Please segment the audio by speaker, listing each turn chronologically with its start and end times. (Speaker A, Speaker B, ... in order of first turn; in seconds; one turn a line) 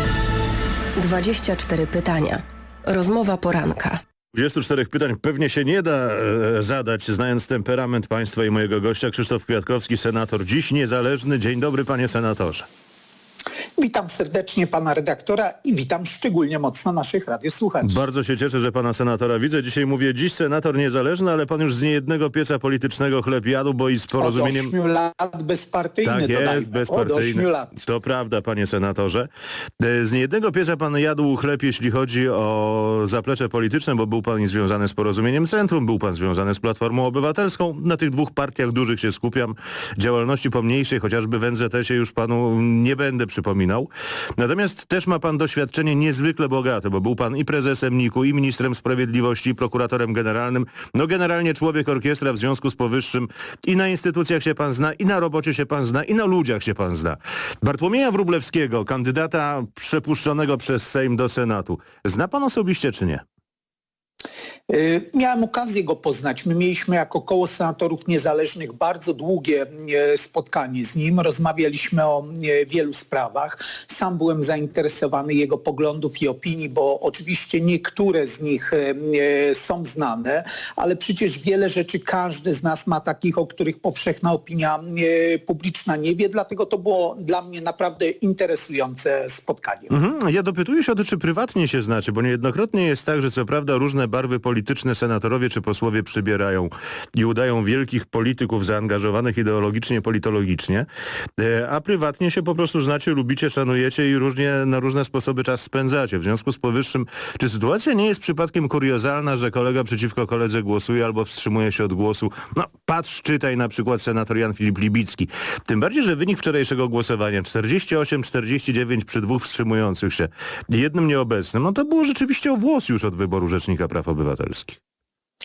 Speaker A: 1.0-4.0
Speaker B: 4.3-12.7
Speaker C: 13.8-18.0
Speaker B: 17.8-24.7
Speaker C: 24.2-27.8
Speaker B: 26.0-29.3
Speaker B: 29.8-63.2
Speaker C: 64.7-89.9
Speaker B: 89.9-100.9
Speaker B: 101.4-124.8